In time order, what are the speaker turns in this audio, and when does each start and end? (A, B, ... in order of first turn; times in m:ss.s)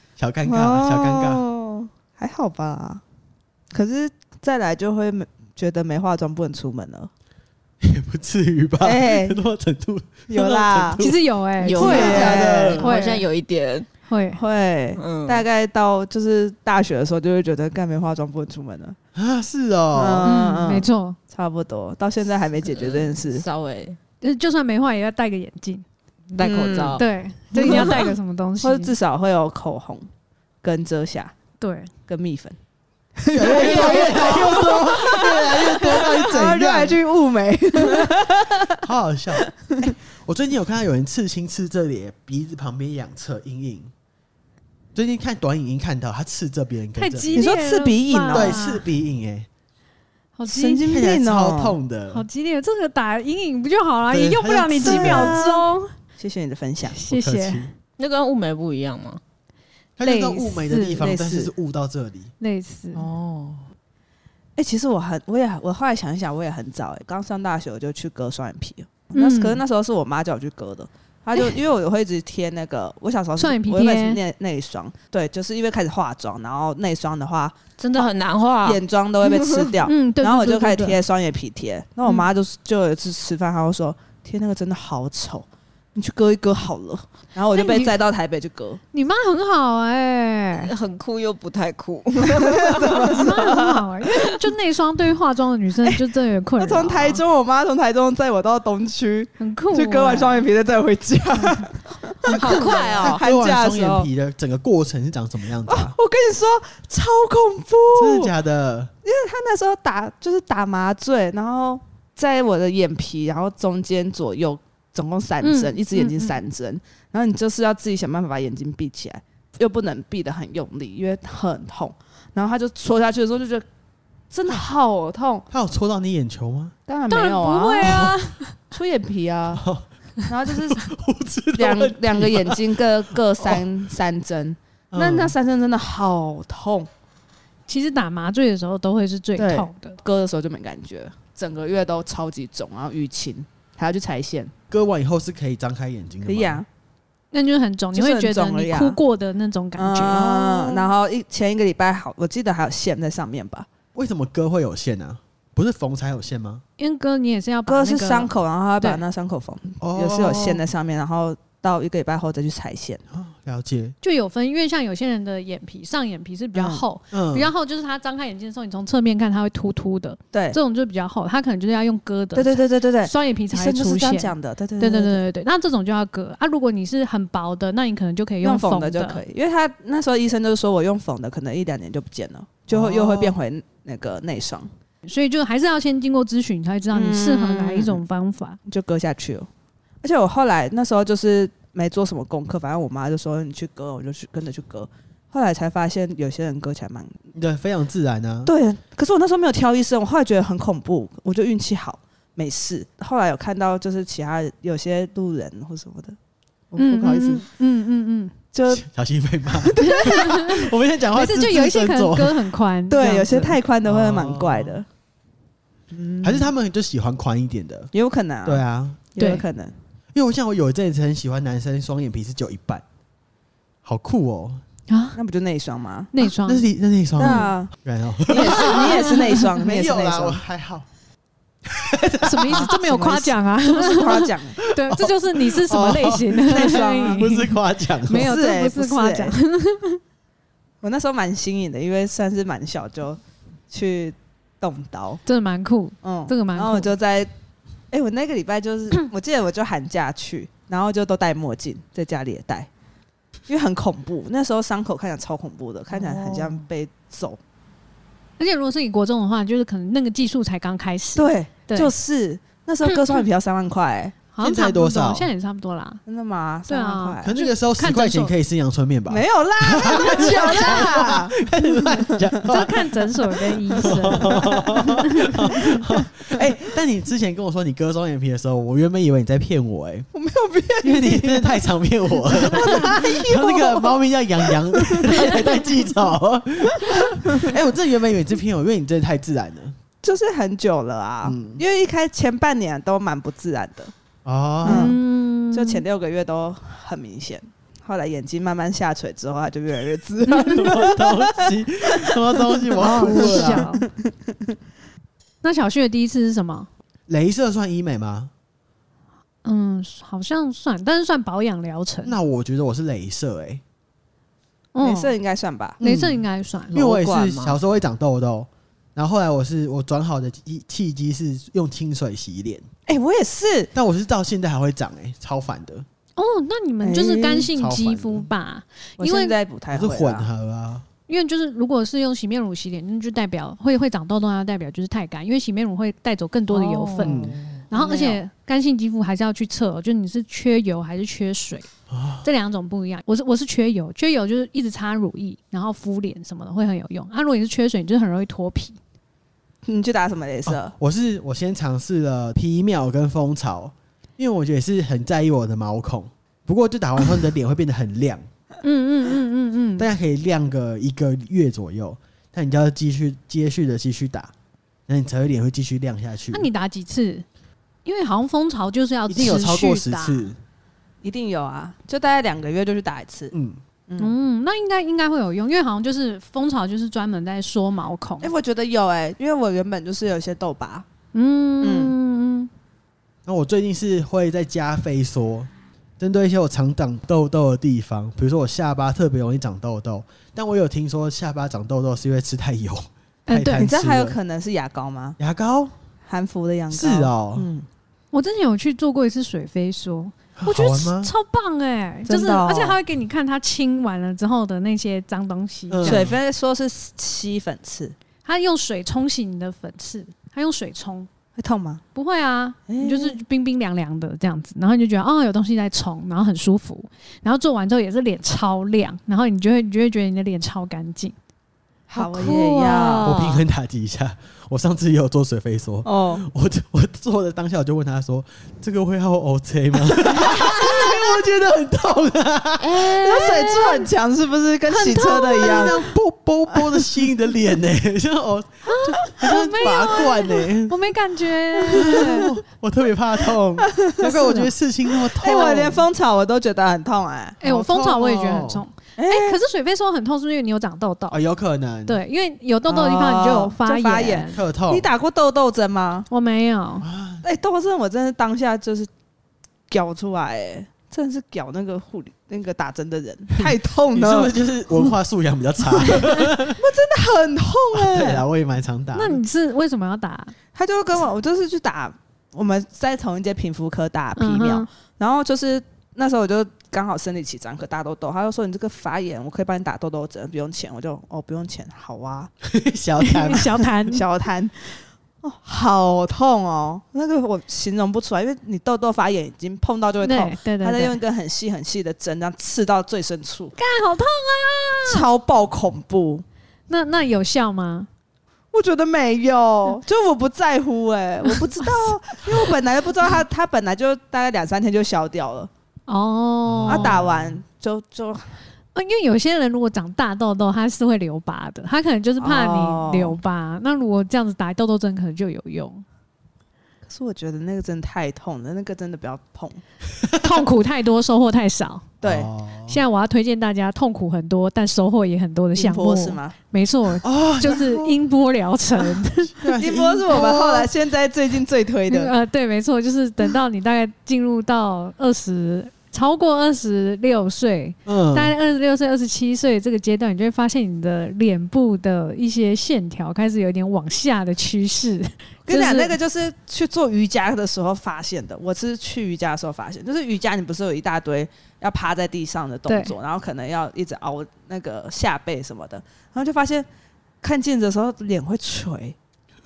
0:00.2-0:01.4 A
0:00.5-0:03.0 B
0:03.7-0:07.1 B
0:07.8-0:11.2 A
0:08.8-0:09.4 B
0:10.3-0:11.0 B
0:11.0-0:13.3 C
0:11.6-0:13.9 D
0:11.8-0:12.9 A
0:11.8-0:13.0 B
0:14.1-0:14.4 C
0:14.4-0:19.0 B
0:15.0-0:15.4 D
0:19.2-0:20.4 A
0:19.9-0:23.4 B
0:20.2-0:21.2 C
0:22.6-0:24.0 D
0:24.2-0:25.8 C
0:26.3-0:28.1 D
0:26.4-0:27.0 B
0:27.0-0:28.9 C
0:27.5-0:30.1 B
0:30.6-0:31.3 B
0:31.6-0:31.9 C
0:32.1-0:32.6 B
0:33.2-0:38.8 B
0:33.3-0:37.0 A
0:33.5-0:34.6 D
0:38.8-0:43.9 A
0:45.0-0:47.5 A
0:47.0-0:48.8 C
0:47.3-0:48.6 B
0:48.3-0:49.5 A
0:50.4-0:50.8 C
0:50.5-0:51.8 B
0:50.8-0:52.2 A
0:52.1-0:55.9 C
0:54.1-0:55.4 A
0:54.8-0:55.7 B
0:56.2-0:57.0 B
0:56.9-0:57.7 C
0:57.1-0:57.7 A
0:58.0-0:59.2 D
1:00.0-1:02.3 A
1:00.0-1:01.1 C
1:01.0-1:01.5 B
1:02.4-1:03.0 C
1:02.9-1:03.6 D
1:04.6-1:18.1 B
1:09.1-1:09.6 C
1:13.4-1:14.2 C
1:17.8-1:19.7 D
1:18.6-1:28.8 B
1:19.9-1:21.0 C
1:27.5-1:27.9 C
1:28.9-1:30.7 C
1:30.6-1:33.5 D
1:32.2-1:33.9 B
1:33.1-1:37.2 C
1:36.6-1:44.1 B
1:39.4-1:40.4 C
1:42.3-1:43.2 D
1:43.0-1:45.9 A
1:45.7-1:48.3 B
1:47.9-1:48.9 A
1:49.0-2:03.6 B
1:55.4-1:56.4 C
2:04.3-2:05.5 B
2:05.5-2:06.8 A
2:06.9-2:08.1 B
2:07.1-2:08.6 C
2:07.8-2:08.2 A
2:08.7-2:09.6 B
2:09.5-2:09.9 A
2:10.3-2:10.9 B
2:10.5-2:13.7 A
2:11.6-2:16.9 B
2:14.9-2:15.4 A
2:17.7-2:20.0 C
2:19.4-2:19.7 A
2:20.0-2:24.5 B
2:24.7-2:26.6 A
2:26.2-2:26.7 B
2:27.3-2:30.9 C
2:27.9-2:29.0 B
2:29.8-2:33.7 B
2:34.0-2:36.6 A
2:36.8-2:39.0 C
2:37.7-2:43.0 B
2:39.8-2:40.6 A
2:43.1-2:44.0 A
2:44.0-2:59.2 C
2:46.6-2:46.8 B
2:47.1-2:47.5 A
2:50.3-2:50.6 B
2:52.4-2:55.2 B
2:58.4-3:04.7 B
3:02.7-3:03.4 A
3:05.1-3:08.6 C
3:06.9-3:08.0 B
3:08.7-3:09.5 B
3:10.0-3:17.2 B
3:17.3-3:18.5 A
3:18.5-3:26.2 B
3:26.7-3:27.4 B
3:26.8-3:28.3 C
3:28.5-3:28.8 B
3:28.7-3:32.5 A
3:29.5-3:30.3 B
3:29.8-3:33.6 C
3:32.9-3:34.9 B
3:33.8-3:34.8 A
3:35.9-3:36.5 B
3:36.2-3:37.9 A
3:37.9-3:38.6 B
3:38.4-3:39.0 A
3:39.1-3:39.7 B
3:39.2-3:39.4 C
3:40.1-3:42.8 A
3:43.8-3:44.6 A
3:44.9-3:45.2 C
3:45.2-3:46.1 B
3:46.1-3:46.7 C
3:46.4-3:50.9 A
3:47.2-3:47.7 B
3:48.3-3:50.4 B
3:48.6-3:49.1 C
3:51.7-3:53.4 A
3:52.2-4:00.0 C
3:53.7-3:54.6 B
3:54.6-3:58.4 A
3:56.5-3:57.2 B
3:58.1-3:59.4 B
4:00.8-4:05.2 B
4:05.3-4:06.9 C
4:06.0-4:07.3 B
4:07.9-4:12.7 B
4:13.5-4:17.4 B
4:18.4-4:21.9 C
4:21.2-4:24.2 B
4:22.8-4:23.2 C
4:24.3-4:26.0 C
4:24.4-4:25.3 A
4:26.1-4:27.4 B
4:26.7-4:28.4 C
4:27.2-4:33.0 A
4:29.1-4:32.5 B
4:29.8-4:31.2 C
4:32.5-4:35.8 C
4:33.7-4:36.5 B
4:33.8-4:40.1 A
4:40.1-4:41.6 B
4:40.8-4:49.8 A
4:42.3-4:45.7 B
4:46.9-4:47.5 B
4:50.0-4:53.9 B
4:51.2-4:51.6 A
4:54.2-4:55.0 A
4:54.6-4:55.0 B
4:54.6-4:55.8 C
4:55.5-5:01.5 B
5:00.5-5:03.7 A
5:02.4-5:04.1 B
5:02.8-5:03.9 C
5:05.4-5:06.7 C
5:07.1-5:08.3 A
5:09.4-5:12.2 C
5:12.0-5:13.6 A
5:14.8-5:15.2 C
5:14.8-5:15.8 B
5:15.8-5:22.7 A
5:15.8-5:16.8 C
5:16.7-5:17.6 D
5:22.9-5:23.7 B
5:23.7-5:25.9 A
5:26.2-5:29.4 C
5:26.8-5:27.5 B
5:27.5-5:28.3 A
5:29.0-5:30.3 B
5:29.7-5:30.9 A
5:31.1-5:37.2 C
5:36.5-5:37.6 D
5:37.0-5:37.4 A
5:37.7-5:41.7 C
5:37.7-5:38.2 B
5:41.9-5:42.3 A
5:42.2-5:48.8 C
5:49.6-5:50.7 B
5:50.5-5:58.2 A
5:58.6-5:59.9 C
5:59.8-6:04.3 A
6:04.9-6:06.5 A
6:06.3-6:07.2 C
6:07.8-6:10.3 C
6:09.1-6:10.4 A
6:11.0-6:13.3 B
6:13.3-6:13.6 A
6:13.9-6:14.1 B
6:14.0-6:18.3 C
6:18.2-6:20.9 B
6:21.1-6:22.5 C
6:21.6-6:21.9 B
6:23.3-6:34.2 A
6:33.3-6:33.7 C
6:33.6-6:35.2 B
6:35.2-6:35.7 A
6:36.1-6:37.7 B
6:36.7-6:37.5 A
6:38.1-6:46.1 C
6:40.4-6:41.1 A
6:42.1-6:42.8 B
6:45.7-6:46.2 A
6:45.8-6:48.0 B
6:48.2-6:51.1 C
6:51.4-6:51.8 B
6:52.0-7:01.2 C
6:52.7-6:53.2 B
7:01.9-7:03.2 B
7:02.0-7:03.4 D
7:02.2-7:02.8 C
7:03.0-7:13.0 A
7:05.8-7:06.2 B
7:10.2-7:10.8 B
7:12.6-7:13.8 D
7:13.0-7:15.8 B
7:14.7-7:15.7 C
7:15.4-7:20.8 A
7:18.7-7:22.3 C
7:21.7-7:25.9 A
7:23.7-7:24.2 B
7:24.0-7:24.5 C
7:25.1-7:27.4 B
7:25.3-7:25.7 C
7:27.4-7:31.2 C
7:27.4-7:28.6 A
7:29.0-7:29.4 B
7:31.1-7:32.0 A
7:31.9-7:34.4 C
7:32.7-7:36.1 B
7:34.3-7:34.9 A
7:36.1-7:36.9 C
7:36.8-7:37.2 A
7:37.2-7:38.9 B
7:39.7-7:44.4 B
7:43.4-7:46.6 A
7:45.8-7:48.2 B
7:47.7-7:49.2 A
7:48.9-7:50.3 C
7:50.5-8:02.3 B
7:54.2-7:54.7 C
8:02.4-8:03.7 A
8:03.0-8:04.0 C
8:03.9-8:13.6 B
8:10.0-8:11.0 C
8:13.6-8:15.0 C
8:14.9-8:16.2 B
8:16.7-8:17.9 C
8:18.5-8:25.5 B
8:21.6-8:21.9 C
8:25.9-8:27.0 C
8:26.5-8:27.4 A
8:26.7-8:28.4 B
8:28.8-8:35.8 C
8:32.2-8:33.2 B
8:36.9-8:39.6 B
8:40.2-8:41.9 C
8:42.0-8:42.3 B
8:42.0-8:42.8 A
8:42.7-8:49.3 C
8:45.6-8:46.4 B
8:47.0-8:48.0 A
8:49.1-8:50.7 A
8:49.6-8:52.1 B
8:51.9-9:06.0 C
8:57.9-8:58.3 A
9:05.5-9:16.7 B
9:12.7-9:13.0 C
9:17.2-9:19.0 B